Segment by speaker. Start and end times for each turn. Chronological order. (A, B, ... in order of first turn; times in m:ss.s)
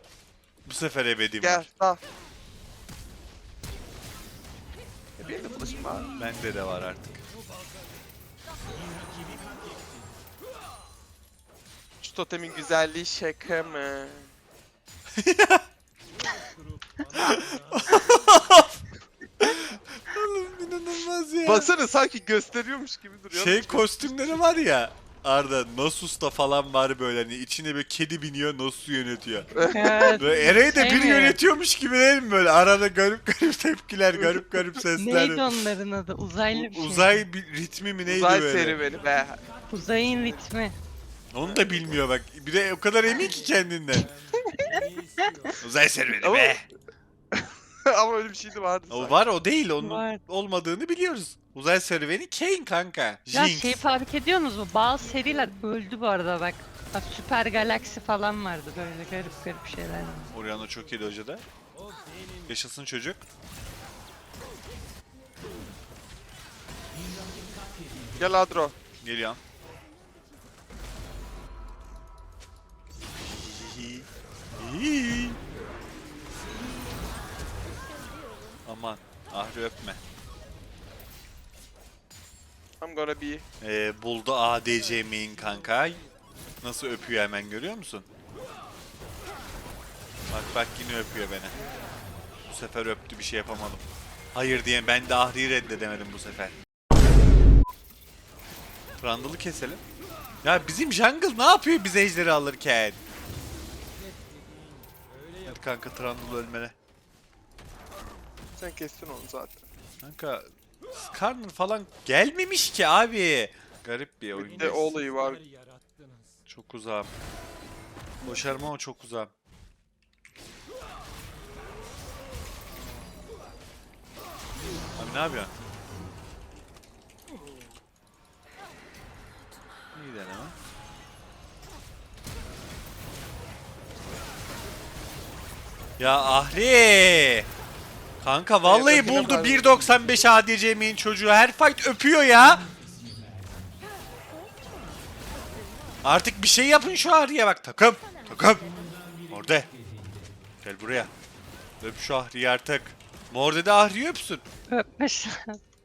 0:00.7-0:01.7 A
0:01.4-0:02.0 B
0:05.2-0:06.1 B
0:06.2-0:07.2 A
0:12.0-0:14.3 B
0:15.1-0:15.6 A
0:17.1-0:18.8 A
0:19.4-0:21.7 A
0:21.4-0:24.4 B
0:23.3-0:29.5 A
0:29.5-0:30.2 B
0:29.7-0:31.4 C
0:30.2-0:35.5 A
0:34.1-0:34.8 B
0:35.0-0:37.2 C
0:36.5-0:38.8 A
0:38.1-0:39.4 B
0:39.7-0:40.8 C
0:41.3-0:44.1 A
0:41.4-0:41.7 B
0:44.4-0:44.8 B
0:45.6-0:46.6 A
0:46.2-0:46.6 B
0:47.3-0:49.2 B
0:48.9-0:53.8 A
0:49.8-0:50.2 C
0:53.3-1:00.3 C
1:00.3-1:01.4 A
1:02.5-1:03.2 A
1:08.2-1:08.8 B
1:09.0-1:09.4 A
1:13.4-1:15.4 A
1:18.6-1:20.0 A
1:22.8-1:23.4 B
1:23.6-1:26.0 A
1:26.6-1:28.1 A
1:30.3-1:31.6 A
1:32.5-1:33.8 A
1:34.3-1:36.5 A
1:39.0-1:39.8 A
1:40.4-1:43.0 A
1:45.4-1:46.8 A
1:48.6-1:49.6 B
1:50.0-1:54.9 A
1:54.3-1:55.4 B
1:56.5-1:57.1 A
1:58.2-1:59.3 A
2:05.0-2:05.5 A
2:09.9-2:10.5 A
2:16.0-2:17.5 A
2:18.2-2:22.6 A
2:18.6-2:20.0 B
2:26.0-2:28.7 A
2:29.3-2:29.7 A
2:30.6-2:31.1 A
2:31.8-2:34.4 A
2:34.7-2:35.6 C